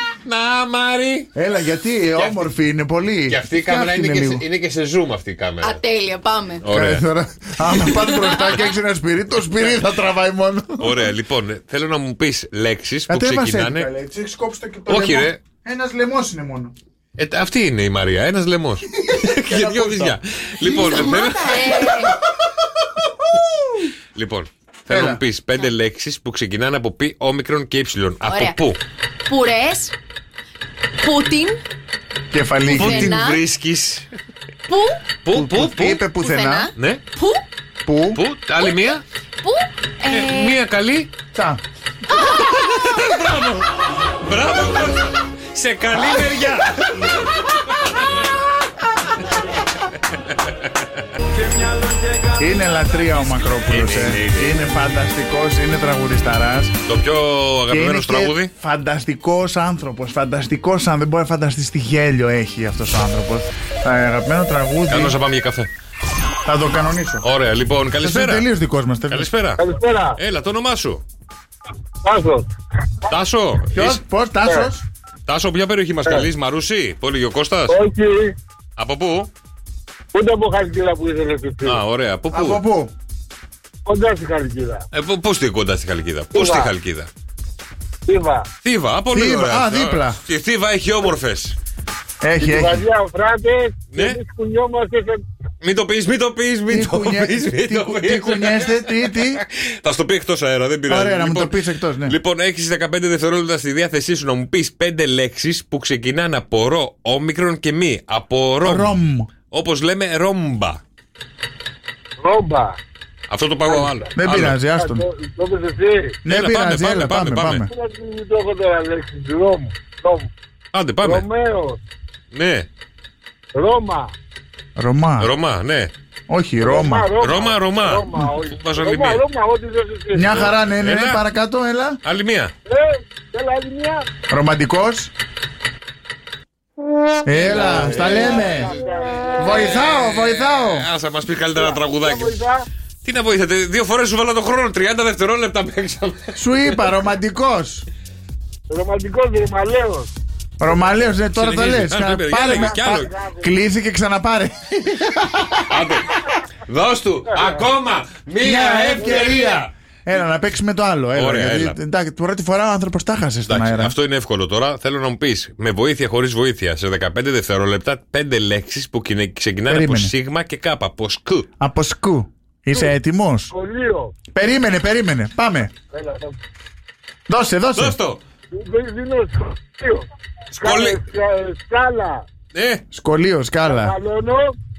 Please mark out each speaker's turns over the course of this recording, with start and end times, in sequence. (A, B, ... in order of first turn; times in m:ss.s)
0:00.2-0:01.3 A
0:01.3-0:04.4 B
0:03.3-0:05.8 A
0:05.6-0:06.6 C
0:06.6-0:07.0 A
0:06.7-0:11.1 B
0:07.8-0:08.6 C
0:10.8-0:13.9 A
0:13.1-0:16.7 B
0:14.9-0:15.4 A
0:17.2-0:22.1 A
0:19.0-0:21.2 B
0:20.6-0:22.2 C
0:23.2-0:23.9 B
0:24.1-0:28.8 A
0:24.9-0:25.2 B
0:28.3-0:28.6 C
0:29.3-0:29.9 C
0:31.0-0:31.6 C
0:32.3-0:33.2 B
0:32.7-0:33.4 C
0:32.7-0:34.1 A
0:34.7-0:35.0 C
0:35.2-0:36.0 A
0:35.3-0:36.7 B
0:36.1-0:37.4 C
0:36.8-0:37.0 A
0:37.8-0:38.2 B
0:38.1-0:39.0 A
0:39.4-0:40.6 C
0:40.1-0:41.1 A
0:41.3-0:41.6 B
0:42.4-0:48.0 A
0:52.3-0:56.8 B
0:53.6-0:54.7 A
0:56.8-0:58.5 A
0:57.7-1:05.2 B
1:04.9-1:05.7 A
1:06.4-1:07.2 B
1:07.2-1:08.5 A
1:08.0-1:09.3 B
1:09.1-1:09.6 A
1:09.6-1:10.2 D
1:10.2-1:11.0 A
1:12.0-1:12.5 D
1:13.1-1:14.0 A
1:13.7-1:14.8 B
1:14.4-1:14.7 D
1:15.3-1:17.8 A
1:17.7-1:18.4 D
1:18.8-1:19.3 A
1:20.1-1:21.8 D
1:21.6-1:22.6 A
1:22.3-1:22.9 B
1:23.8-1:24.8 D
1:24.9-1:27.1 A
1:26.3-1:26.7 D
1:28.0-1:28.5 D
1:28.6-1:31.6 A
1:29.1-1:30.2 B
1:32.2-1:32.8 B
1:32.4-1:35.2 D
1:33.9-1:34.2 A
1:35.6-1:49.0 A
1:36.7-1:39.4 B
1:40.9-1:42.2 B
1:48.6-1:49.3 B
1:49.5-1:50.8 A
1:52.2-1:52.8 D
1:53.3-1:54.6 A
1:53.7-1:54.0 D
1:54.2-1:55.0 B
1:54.7-1:56.2 D
1:56.2-1:57.7 B
1:56.3-1:57.7 A
1:57.7-2:00.3 D
2:00.7-2:01.2 A
2:01.0-2:01.8 D
2:02.3-2:02.7 A
2:03.5-2:04.1 D
2:04.8-2:05.3 B
2:05.2-2:05.9 A
2:06.3-2:07.1 B
2:06.6-2:10.4 D
2:07.2-2:09.2 A
2:10.1-2:12.0 B
2:10.3-2:11.2 A
2:12.0-2:12.5 A
2:12.6-2:14.1 D
2:14.3-2:15.1 B
2:17.2-2:18.7 B
2:17.3-2:22.3 A
2:17.6-2:19.6 D
2:19.4-2:20.9 B
2:21.5-2:22.6 D
2:23.0-2:26.8 A
2:26.4-2:27.8 B
2:28.7-2:30.1 D
2:30.6-2:35.8 B
2:31.3-2:33.1 A
2:32.4-2:33.5 D
2:35.7-2:39.7 A
2:37.3-2:37.6 D
2:38.4-2:43.9 B
2:39.0-2:39.3 D
2:41.1-2:41.8 A
2:43.5-2:51.5 A
2:49.7-2:50.1 B
2:51.6-2:53.5 B
2:53.5-2:54.2 D
2:54.3-2:55.7 B
2:55.9-2:56.4 D
2:57.3-2:58.0 B
2:57.7-2:58.2 A
2:58.5-3:00.0 D
3:00.5-3:01.0 A
3:00.6-3:02.2 D
3:02.5-3:02.8 A
3:02.9-3:03.9 B
3:03.6-3:04.5 D